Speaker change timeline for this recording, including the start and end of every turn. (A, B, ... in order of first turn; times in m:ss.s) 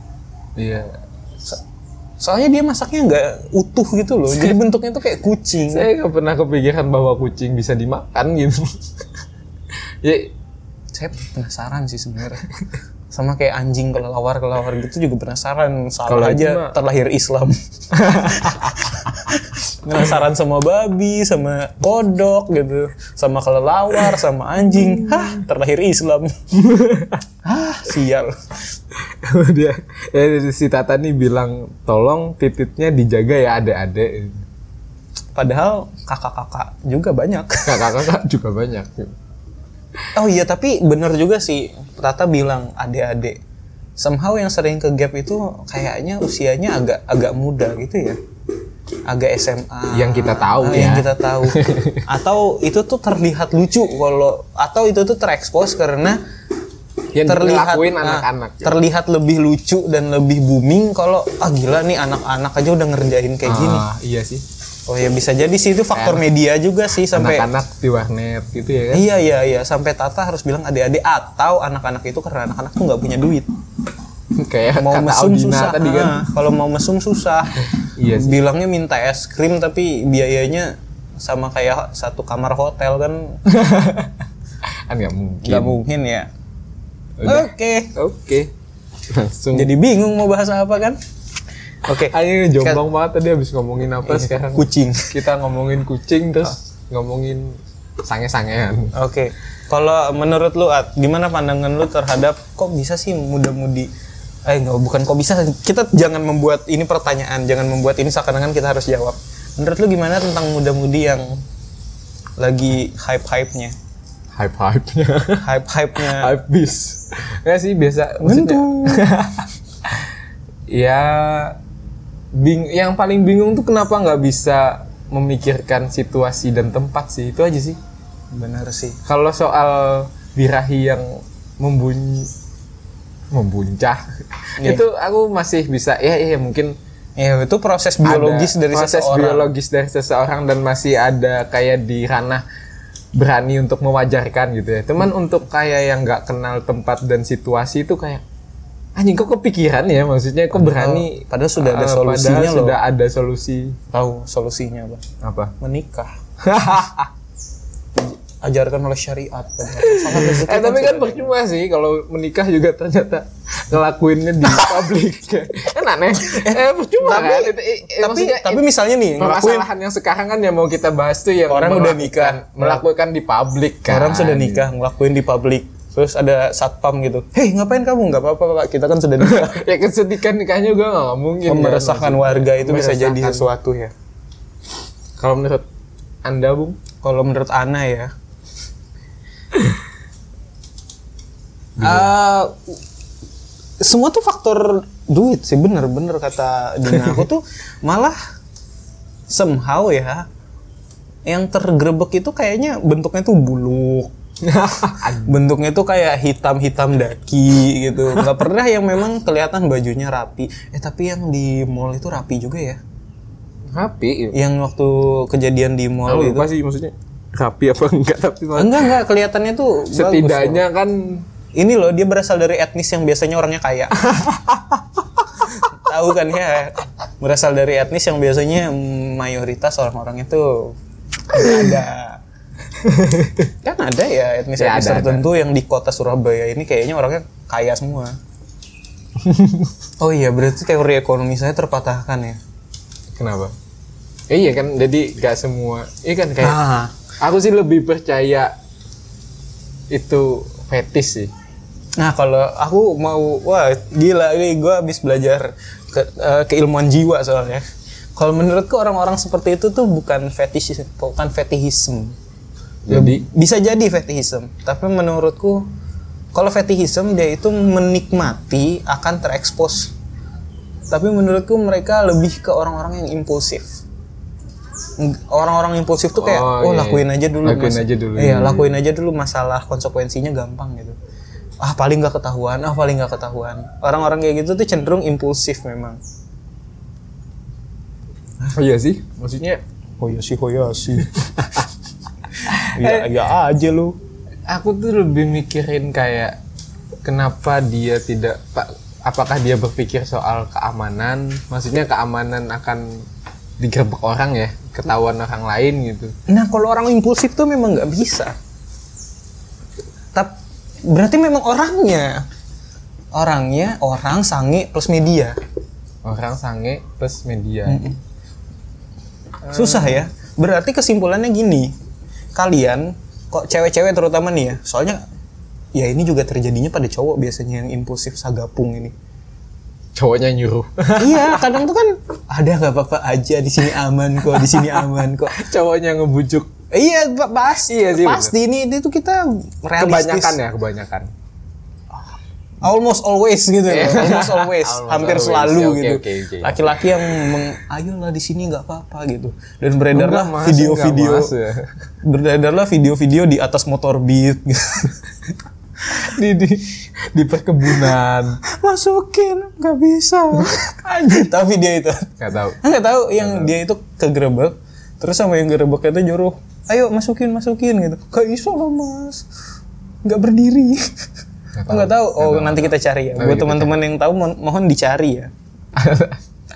0:00.6-0:01.0 A
0:02.2-0:05.9 B
0:05.7-0:08.7 A
0:10.0-0:10.3 A
0:10.9-0:12.5 B
0:13.1-0:26.4 B
0:16.1-0:16.7 A
0:18.0-0:18.6 A
0:24.7-0:25.4 A
0:26.5-0:27.2 A
0:27.4-0:28.4 B
0:29.0-0:34.4 A
0:35.3-0:38.0 B
0:37.6-0:39.1 A
0:40.1-0:43.4 B
0:44.0-0:48.2 B
0:49.1-0:56.2 B
0:49.9-0:52.0 A
0:57.1-0:58.8 A
0:57.2-1:03.8 B
1:03.4-1:04.4 A
1:04.9-1:07.5 B
1:05.9-1:06.2 A
1:07.1-1:09.0 A
1:08.9-1:13.5 B
1:14.4-1:16.2 A
1:14.8-1:23.4 B
1:18.0-1:18.4 A
1:23.4-1:24.2 A
1:24.9-1:25.8 A
1:25.4-1:26.3 B
1:27.2-1:28.5 A
1:27.2-1:27.9 B
1:29.1-1:29.7 A
1:29.5-1:31.0 B
1:31.8-1:32.8 B
1:32.1-1:38.9 A
1:34.0-1:35.1 B
1:38.9-1:43.9 B
1:44.4-1:51.4 B
1:52.4-1:53.7 B
1:54.3-1:55.4 A
1:55.4-1:56.3 B
1:56.0-2:00.1 A
1:58.2-1:59.0 B
2:00.7-2:01.6 A
2:02.3-2:07.8 A
2:08.3-2:09.0 B
2:09.0-2:12.3 A
2:13.3-2:16.7 A
2:17.2-2:19.5 B
2:18.0-2:22.4 A
2:23.1-2:28.2 A
2:29.0-2:33.8 A
2:30.6-2:32.8 B
2:33.9-2:35.0 B
2:35.2-2:35.5 A
2:35.6-2:36.1 B
2:36.4-2:37.1 A
2:38.0-2:41.3 B
2:39.8-2:54.6 A
2:44.5-2:44.8 B
2:46.3-2:49.7 B
2:51.5-2:52.8 B
2:53.9-2:59.6 B
2:59.2-3:03.5 A
3:01.4-3:03.9 B
3:05.2-3:05.6 A
3:06.2-3:06.8 A
3:07.0-3:08.1 B
3:11.8-3:12.1 A
3:11.8-3:12.7 B
3:13.8-3:18.2 B
3:19.3-3:20.3 B
3:21.2-3:24.1 B
3:24.4-3:25.4 A
3:25.2-3:32.8 B
3:33.7-3:34.4 A
3:34.3-3:36.5 B
3:36.1-3:38.9 A
3:38.6-3:40.6 B
3:39.9-3:41.3 A
3:41.5-3:44.0 B
3:44.0-3:44.8 A
3:45.6-3:50.8 B
3:51.3-3:52.2 B
3:52.8-3:53.5 A
3:53.6-3:58.2 B
3:54.6-3:55.2 A
3:59.2-3:59.7 A
4:00.0-4:02.4 B
4:03.1-4:03.5 A
4:04.3-4:06.6 A
4:06.4-4:06.9 B
4:07.2-4:08.5 A
4:09.9-4:11.3 A
4:12.0-4:17.6 B
4:18.2-4:22.2 B
4:22.8-4:23.2 A
4:22.9-4:25.7 B
4:26.3-4:29.9 B
4:30.9-4:33.8 B
4:35.0-4:40.9 B
4:36.2-4:38.7 A
4:41.6-4:46.0 B
4:48.4-4:49.6 A
4:50.0-4:51.2 B
4:51.2-4:51.7 A
4:52.4-4:53.1 A
4:52.5-4:54.0 B
4:54.5-4:56.4 A
4:57.0-5:03.0 A
5:03.6-5:06.1 A
5:06.3-5:08.3 B
5:10.1-5:12.2 B
5:13.1-5:15.4 B
5:16.0-5:17.8 A
5:17.7-5:18.0 B
5:19.5-5:21.7 B
5:19.5-5:20.0 A
5:22.3-5:25.0 B
5:25.7-5:28.9 B
5:29.9-5:31.5 A
5:31.0-5:35.3 B
5:34.4-5:36.5 A
5:36.7-5:40.4 B
5:37.7-5:38.3 A
5:39.8-5:41.1 A
5:42.6-5:51.3 B
5:43.7-5:47.0 A
5:49.9-5:51.7 A
5:52.0-5:55.0 B
5:56.0-5:58.4 A
5:58.4-6:09.2 B
6:00.8-6:01.3 A
6:02.2-6:02.6 A
6:03.2-6:03.5 A
6:10.0-6:10.9 B
6:11.6-6:13.7 A
6:11.7-6:15.3 B
6:15.8-6:16.2 A